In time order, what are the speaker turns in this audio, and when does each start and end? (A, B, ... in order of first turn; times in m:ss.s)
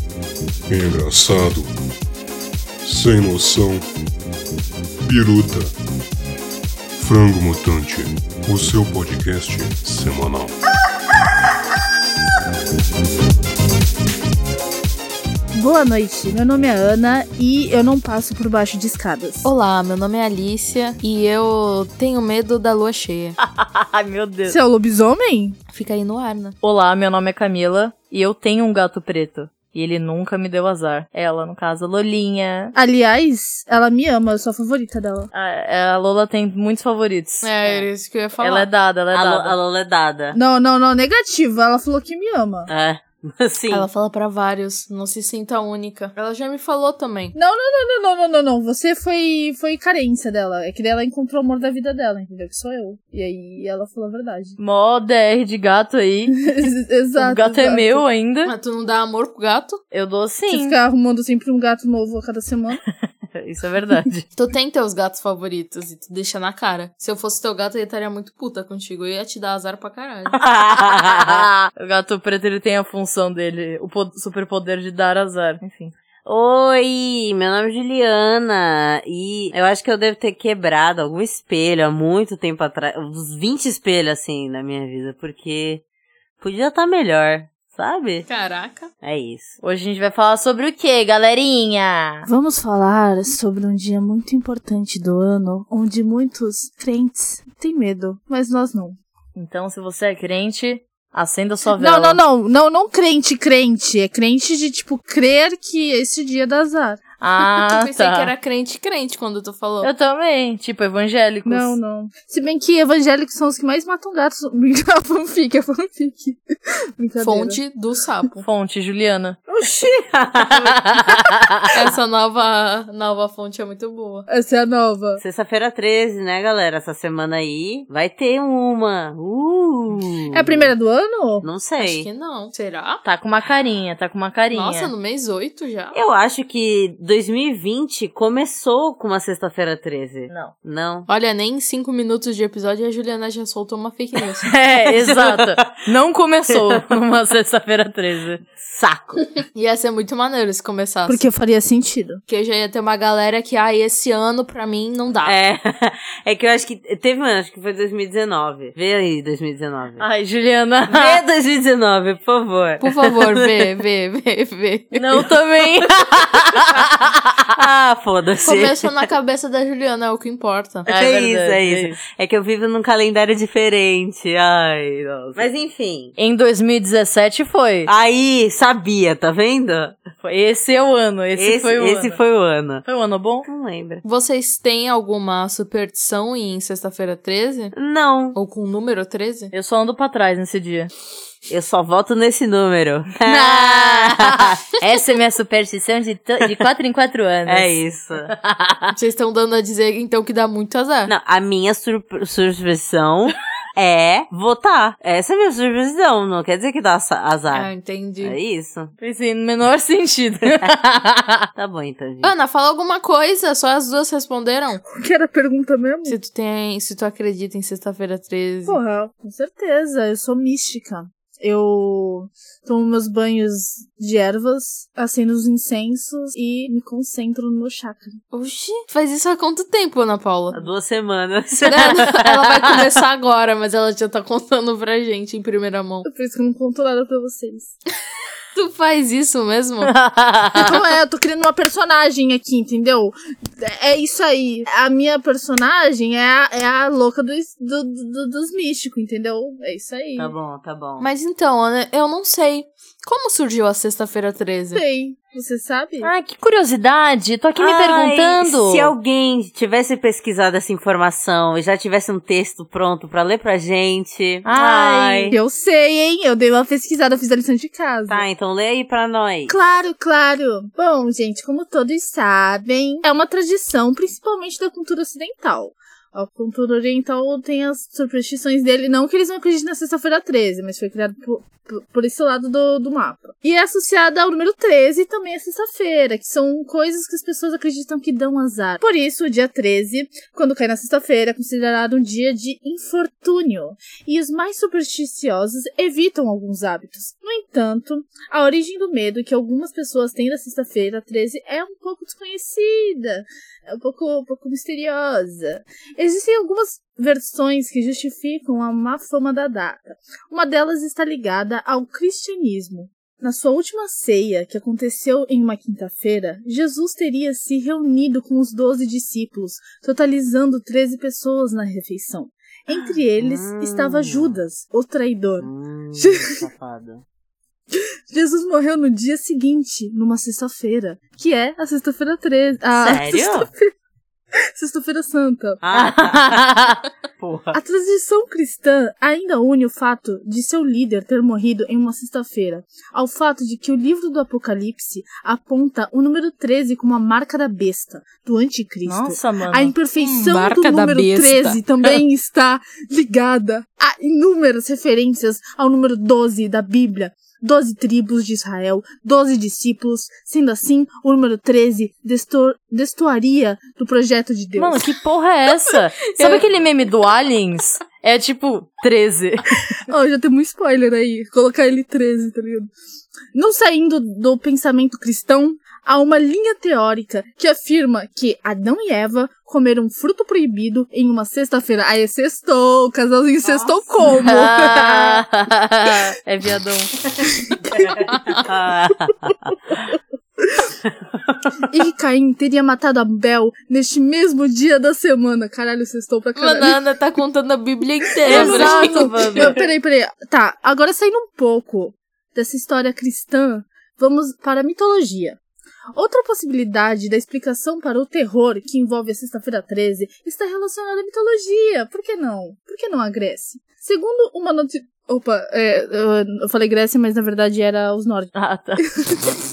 0:00.7-0:01.7 A
0:02.8-0:03.8 A
0:05.0-0:05.7 A
0:07.0-0:10.6 A
0:15.5-0:19.5 B
0:19.4-0:23.4 C
0:23.4-0:24.6 D
0:24.4-0:25.6 B
0:25.7-0:26.6 C
0:26.6-0:32.7 D
0:32.7-0:35.3 B
0:35.3-0:37.5 D
0:37.4-0:38.7 C
0:38.4-0:39.6 D
0:39.1-0:40.4 E
0:40.3-0:42.7 B
0:42.7-0:43.9 E
0:43.7-0:47.3 C
0:47.3-0:54.6 B
0:54.6-0:56.5 D
0:56.4-0:58.0 B
0:57.2-0:58.5 D
0:58.4-0:59.8 C
0:59.9-1:00.8 D
1:00.5-1:02.8 B
1:03.3-1:04.2 D
1:04.3-1:10.4 C
1:10.4-1:11.4 E
1:10.8-1:15.9 D
1:16.2-1:25.8 E
1:26.4-1:28.2 E
1:28.3-1:28.9 C
1:29.0-1:29.6 E
1:29.6-1:32.3 D
1:32.3-1:39.0 B
1:39.3-1:42.2 D
1:41.7-1:47.0 B
1:47.2-1:48.3 D
1:47.4-1:49.9 C
1:49.8-1:51.8 D
1:51.4-1:57.6 B
1:57.2-1:58.4 C
1:58.4-1:59.4 D
1:59.6-2:01.2 E
2:00.6-2:01.7 D
2:01.7-2:04.3 C
2:04.3-2:05.2 B
2:05.2-2:10.7 E
2:10.3-2:11.4 B
2:11.4-2:12.1 E
2:11.8-2:13.0 C
2:13.0-2:14.9 D
2:14.5-2:16.0 C
2:15.9-2:21.1 E
2:21.1-2:24.5 C
2:24.4-2:28.4 D
2:24.8-2:25.8 E
2:26.5-2:26.8 E
2:28.6-2:29.3 E
2:29.5-2:31.3 C
2:31.0-2:32.2 B
2:32.3-2:35.4 C
2:35.2-2:40.0 E
2:40.0-2:41.2 D
2:40.9-2:43.6 E
2:42.8-2:45.2 C
2:44.9-2:47.6 D
2:45.8-2:46.7 E
2:47.5-2:48.9 E
2:48.4-2:50.9 C
2:50.8-2:52.0 D
2:50.9-2:56.1 E
2:56.2-2:57.9 D
2:57.8-3:00.0 E
3:00.2-3:02.2 D
3:01.3-3:02.8 E
3:02.8-3:03.5 D
3:03.4-3:04.0 E
3:04.0-3:07.7 C
3:07.7-3:08.4 E
3:08.3-3:09.5 C
3:09.5-3:10.9 D
3:11.5-3:14.6 E
3:13.2-3:18.9 D
3:17.4-3:18.3 E
3:18.9-3:21.1 C
3:21.1-3:27.7 E
3:27.5-3:28.4 C
3:28.2-3:28.9 E
3:29.0-3:31.5 D
3:31.6-3:32.3 E
3:32.2-3:34.8 C
3:34.8-3:36.2 B
3:36.0-3:38.8 C
3:38.6-3:48.2 B
3:48.3-3:50.6 C
3:50.5-3:52.8 E
3:51.6-3:56.1 C
3:56.0-3:57.7 B
3:58.5-3:59.9 C
3:59.9-4:00.7 D
4:00.6-4:10.3 B
4:10.2-4:11.1 E
4:11.0-4:14.8 C
4:14.7-4:16.1 B
4:16.0-4:18.9 D
4:17.6-4:25.4 E
4:24.4-4:25.4 D
4:25.3-4:28.2 B
4:28.1-4:29.5 E
4:29.5-5:26.4 B
5:23.2-5:24.4 E
5:25.4-5:27.0 E
5:27.7-5:33.7 B
5:32.8-5:33.5 E
5:34.6-5:35.6 B
5:35.6-5:36.6 E
5:35.7-5:36.8 D
5:37.2-5:37.6 E
5:37.5-6:04.8 B
5:48.8-5:49.7 D
5:50.0-5:51.6 C
6:04.6-6:09.7 D
6:05.5-6:06.4 C
6:09.9-6:12.7 B
6:13.3-6:25.2 B
6:23.4-6:23.9 E
6:24.2-6:26.9 D
6:27.5-6:28.1 B
6:27.8-6:29.3 E
6:31.7-6:36.8 B
6:36.4-6:39.6 C
6:38.2-6:45.4 B
6:38.3-6:39.6 D
6:46.0-6:58.3 B
6:58.3-6:58.9 D
6:58.9-6:59.4 B